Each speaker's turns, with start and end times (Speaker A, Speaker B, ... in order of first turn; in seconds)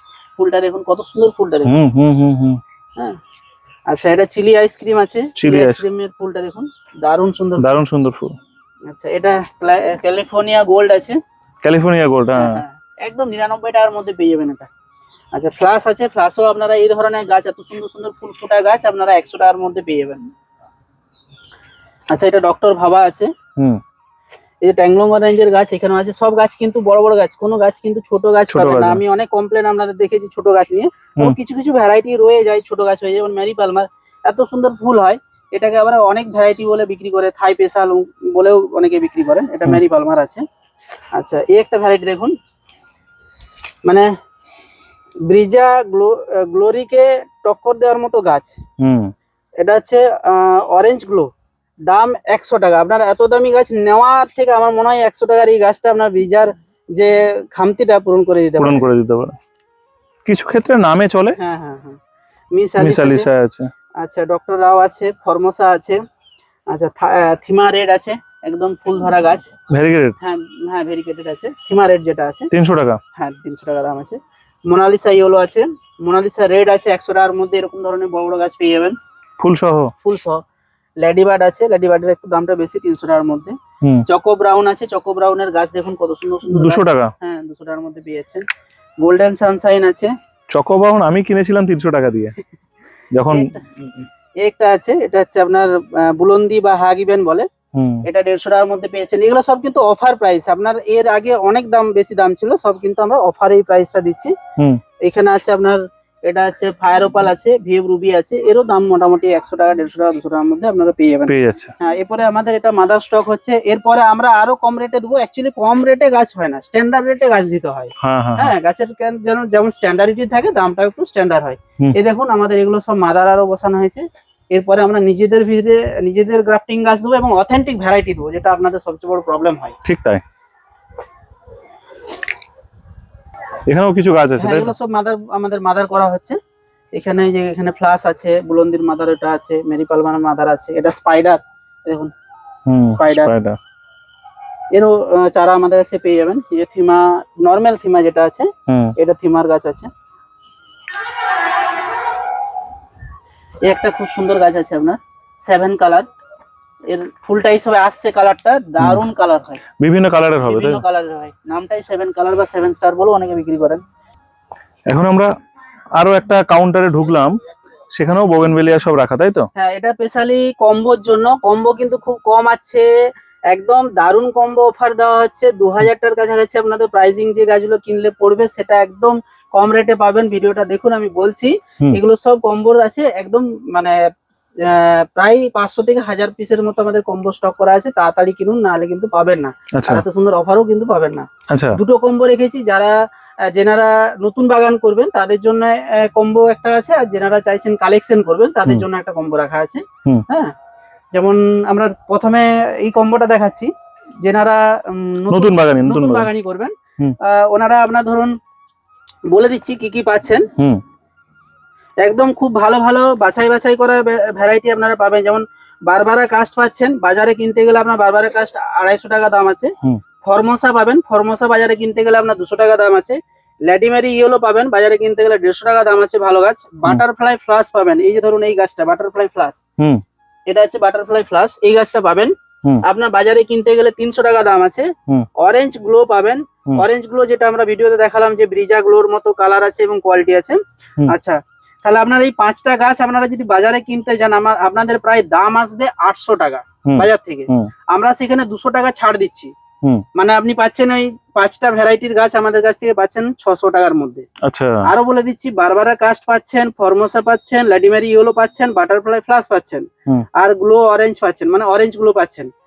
Speaker A: 0.4-1.7, 3.9-7.6, 8.9-11.2, 12.4-14.7, 15.3-20.2, 22.1-23.3, 24.6-40.4, 41.1-42.3, 45.3-48.6, 49.6-51.3, 51.9-58.9, 61.4-62.0, 62.5-63.3, 64.0-66.0, 66.7-69.5, 70.2-72.5, 73.2-79.0, 80.0-80.4, 81.0-83.5, 84.1-88.4, 89.0-90.1, 93.3-93.7, 94.4-97.5, 98.1-104.3, 105.0-129.8, 134.4-136.4, 137.0-142.1, 142.9-143.3, 144.7-149.9, 153.7-156.1, 156.9-159.6, 160.4-163.8, 169.6-172.9, 173.5-184.0, 184.6-192.9, 193.5-200.5, 201.1-203.7, 204.2-208.3, 209.3-210.5, 212.0-219.7, 220.2-229.6, 230.5-232.3, 232.8-249.5, 250.2-254.3, 254.9-262.5
Speaker B: 1.7-2.6, 5.4-5.8, 7.6-8.3, 11.6-12.6, 28.5-29.0, 48.8-49.1, 58.6-59.4, 60.3-61.4, 62.8-63.7, 69.7-70.2, 72.5-73.0, 79.4-79.9, 86.5-87.1, 90.5-92.4, 93.2-93.5, 97.8-98.0, 111.3-111.7, 118.0-118.5, 129.8-130.2, 133.7-134.7, 142.7-143.6, 148.7-148.9, 159.8-160.8, 164.9-165.3, 166.0-167.3, 167.9-169.5, 189.8-190.0, 191.5-191.8, 205.3-206.3, 246.9-247.7, 254.4-254.8